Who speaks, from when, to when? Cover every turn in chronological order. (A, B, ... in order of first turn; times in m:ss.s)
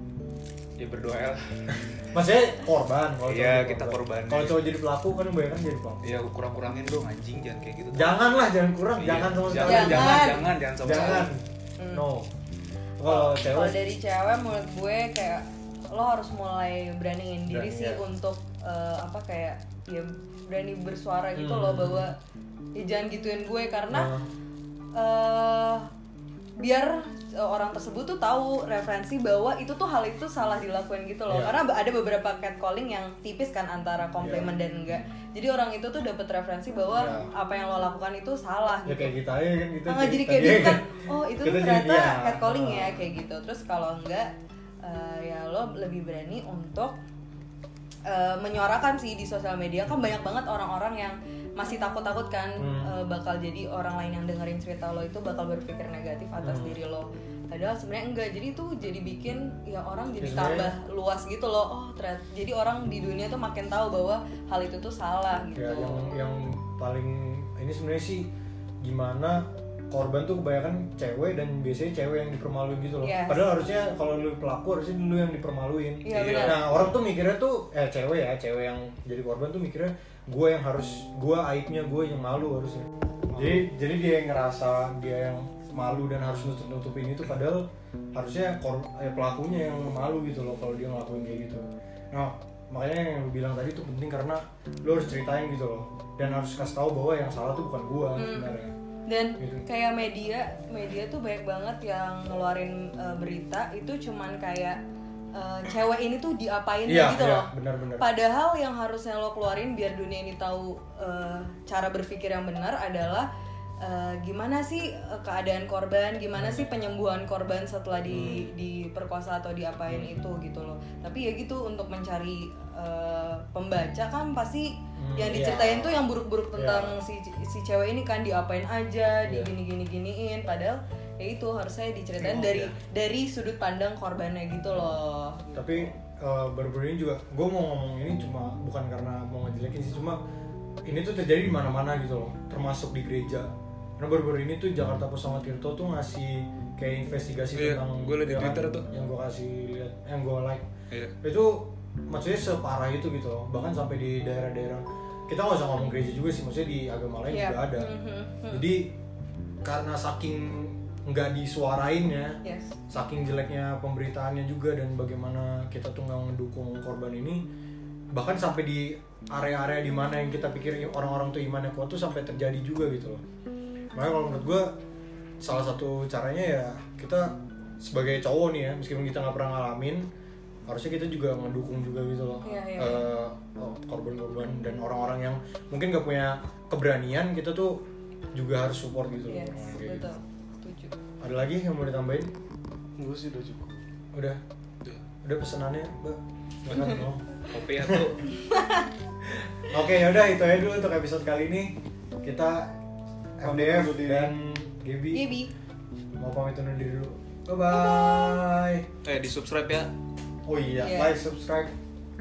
0:00.8-0:02.0 A
0:02.1-0:06.0 B
0:03.2-0:04.7 A
0:06.0-0:08.2 A
0:07.9-0:12.3 B
0:08.9-0:11.3 A
0:09.6-0:12.0 C
0:13.0-0:13.8 B
0:13.0-0:22.2 C
0:17.5-0:18.0 B
0:21.4-0:22.1 B
0:22.7-0:24.1 C
0:23.9-0:24.3 B
0:24.9-0:25.9 C
0:26.6-0:39.1 C
0:31.3-0:31.6 B
0:34.2-0:35.0 B
0:36.9-0:37.3 B
0:38.8-0:43.0 B
0:39.8-0:44.3 C
0:44.8-0:46.9 C
0:48.1-1:06.0 C
0:52.6-0:52.9 B
0:56.4-0:56.8 B
1:00.2-1:00.7 B
1:05.6-1:08.3 B
1:08.8-1:38.7 B
1:13.0-1:13.5 C
1:16.0-1:16.7 C
1:16.1-1:17.0 A
1:23.3-1:23.6 D
1:38.2-1:38.5 C
1:39.1-1:44.8 C
1:39.4-1:39.6 B
1:45.3-1:53.3 C
1:46.9-1:48.0 B
1:53.8-2:15.9 C
1:56.4-1:56.7 B
1:58.1-1:58.5 B
1:59.9-2:00.2 B
2:05.0-2:07.0 B
2:09.2-2:09.5 B
2:12.2-2:12.7 B
2:15.5-2:20.2 B
2:20.9-2:30.6 B
2:27.5-2:28.9 A
2:31.2-2:37.9 B
2:37.3-2:38.7 C
2:38.5-2:38.9 B
2:39.6-2:42.4 B
2:42.4-2:42.7 C
2:42.9-2:47.4 B
2:48.1-2:53.2 B
2:53.9-2:54.7 B
2:55.4-3:00.1 B
3:00.7-3:07.8 B
3:02.4-3:03.1 C
3:08.3-3:10.1 B
3:09.3-3:10.9 C
3:11.2-3:12.3 B
3:13.0-3:13.8 D
3:14.1-3:14.4 B
3:15.2-3:17.2 B
3:17.5-3:18.2 A
3:17.8-3:18.1 B
3:18.3-3:18.9 C
3:19.3-3:22.7 B
3:23.4-3:25.2 B
3:23.4-3:24.3 D
3:25.1-3:25.5 C
3:26.2-3:28.9 B
3:27.7-3:28.4 C
3:29.0-3:29.9 A
3:30.4-3:31.7 B
3:30.8-3:31.2 C